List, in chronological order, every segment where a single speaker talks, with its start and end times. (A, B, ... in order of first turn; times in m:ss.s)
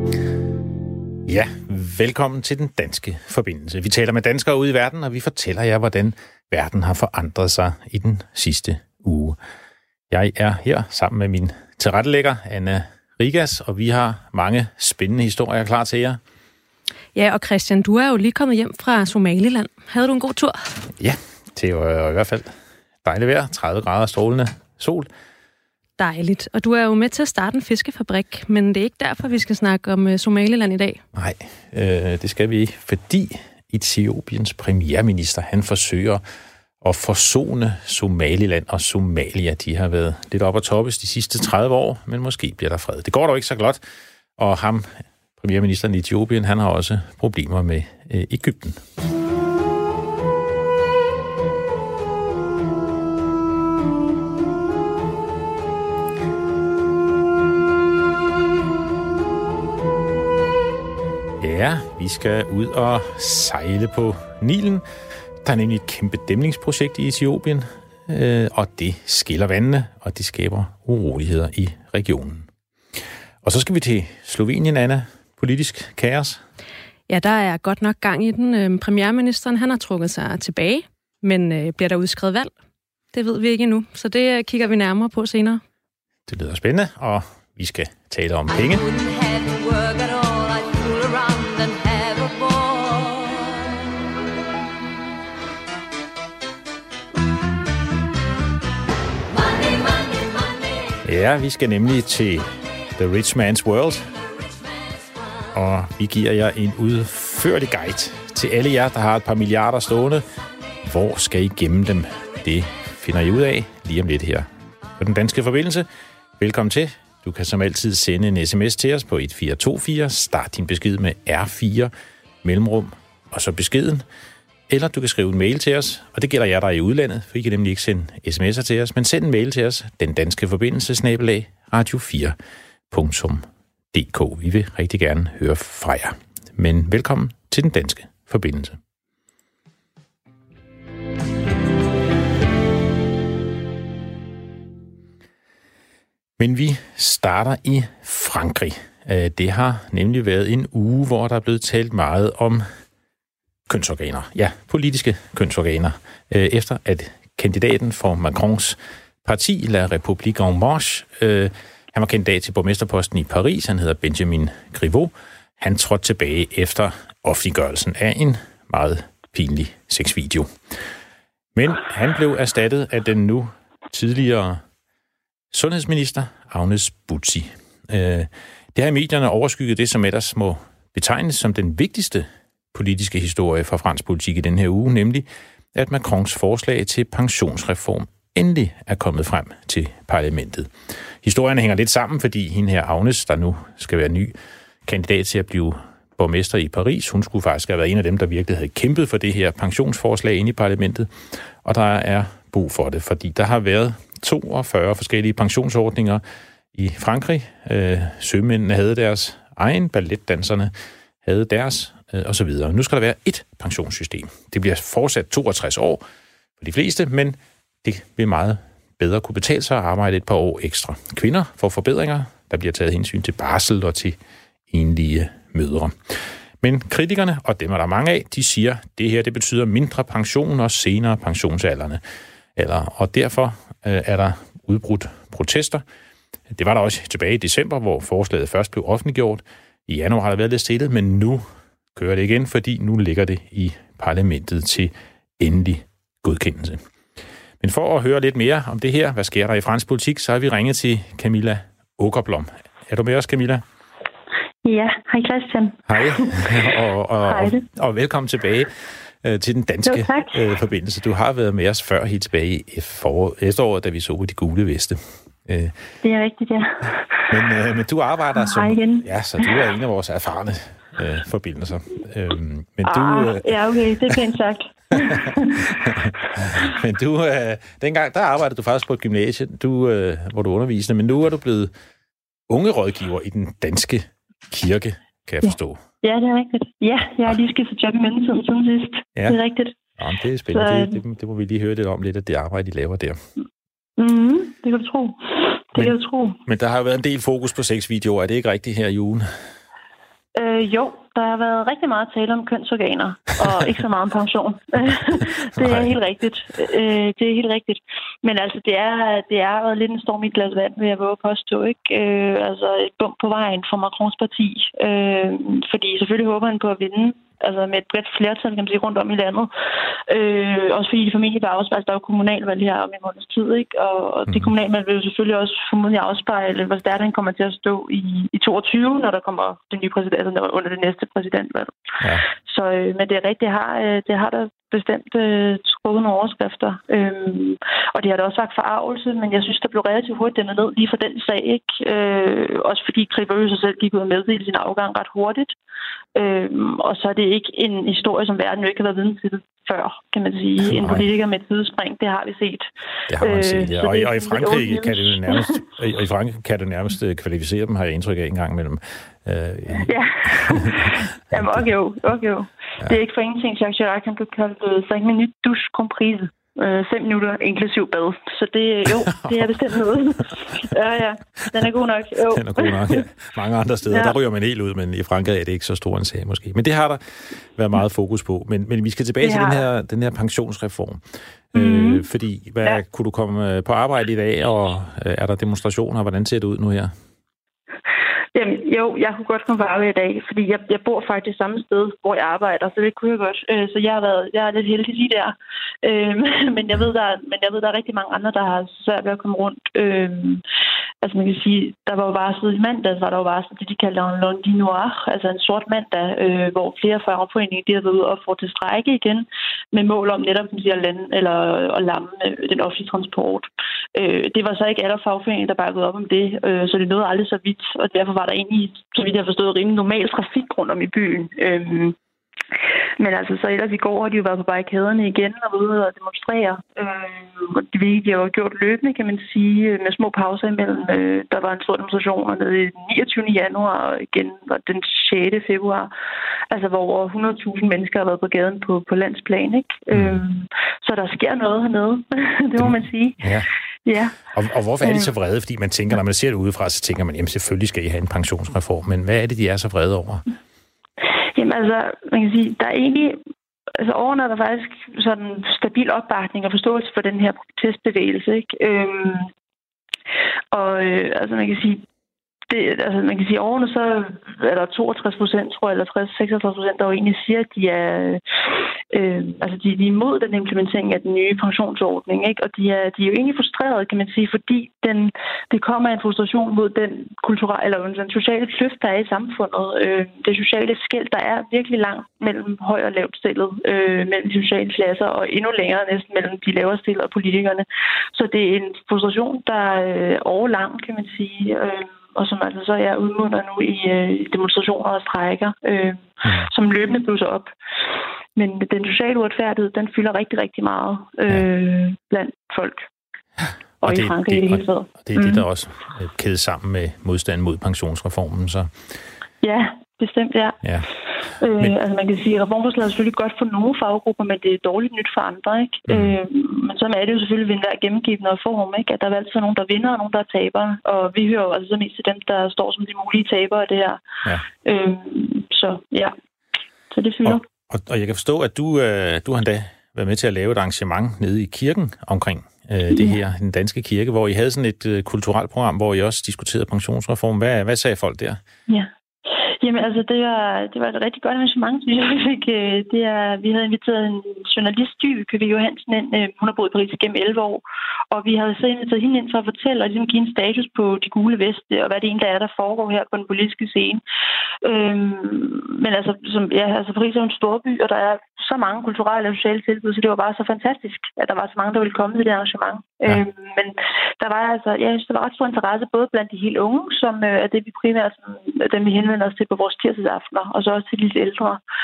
0:01.3-0:09.4 A
0:10.1-0:16.2 A
0:17.1-0:20.7 B
0:21.0-0:22.5 A
0:23.0-0:25.1 A
0:26.0-0:31.0 B
0:31.1-0:36.2 A
0:36.8-0:43.8 A
0:44.4-0:48.8 A
1:01.4-1:04.8 A
1:05.4-1:12.5 A
1:13.4-1:16.4 A
1:17.1-1:22.5 B
1:23.1-1:25.6 B
1:26.3-1:28.9 A
1:41.0-1:44.1 A
1:45.5-1:50.2 A
1:50.8-1:54.5 A
1:55.0-1:55.9 A
1:56.4-2:01.9 A
2:02.4-2:04.0 A
2:04.7-2:12.4 A
2:12.9-2:18.8 A
2:26.4-2:32.6 A
2:33.7-2:50.5 A
2:51.6-2:54.6 A
2:55.5-3:10.7 A
3:11.2-3:14.3 A
3:14.8-3:21.1 A
3:21.6-3:26.2 A
3:26.7-3:30.7 A
3:31.2-3:36.0 A
3:36.6-3:44.2 A
3:44.7-3:52.0 A
3:52.6-3:55.8 A
3:56.5-4:06.8 A
4:07.6-4:13.6 A
4:14.6-4:16.5 C
4:15.9-4:18.7 A
4:17.3-4:17.6 C
4:19.2-4:25.7 A
4:19.8-4:20.3 C
4:26.0-4:27.2 C
4:27.3-4:33.5 A
4:28.4-4:29.1 C
4:32.8-4:35.6 C
4:34.9-4:41.7 A
4:42.5-4:45.8 A
4:46.0-4:49.7 C
4:50.0-4:53.2 A
4:50.5-4:51.0 C
4:54.0-4:56.4 C
4:55.8-4:59.3 A
5:00.4-5:19.5 C
5:05.6-5:05.9 A
5:20.1-5:31.7 C
5:32.0-5:32.2 A
5:32.3-5:45.6 C
5:46.2-5:52.7 C
5:50.6-5:51.1 A
5:53.1-6:01.6 A
5:53.2-5:55.5 C
5:59.8-6:13.0 C
6:09.2-6:09.5 A
6:12.3-6:17.0 A
6:13.9-6:14.2 C
6:17.5-6:21.0 A
6:19.2-6:19.6 C
6:21.5-6:26.9 A
6:21.5-6:22.0 C
6:28.3-6:40.4 C
6:41.0-7:01.9 C
7:03.0-7:15.9 C
7:16.5-7:23.2 C
7:19.9-7:20.2 A
7:22.6-7:23.5 A
7:23.8-7:24.2 C
7:24.3-7:30.2 A
7:24.8-7:25.1 C
7:31.3-7:33.2 C
7:33.8-7:39.3 C
7:40.5-7:41.8 C
7:42.5-7:48.2 C
7:48.9-8:17.5 C
8:18.4-8:22.8 C
8:23.8-8:25.4 C
8:23.8-8:28.7 A
8:29.4-8:30.6 C
8:31.4-8:44.0 C
8:35.9-8:36.2 A
8:44.6-8:46.1 C
8:46.9-8:47.4 C
8:47.2-8:58.4 A
8:52.9-8:53.2 C
8:59.6-9:14.0 C
9:14.6-9:31.6 C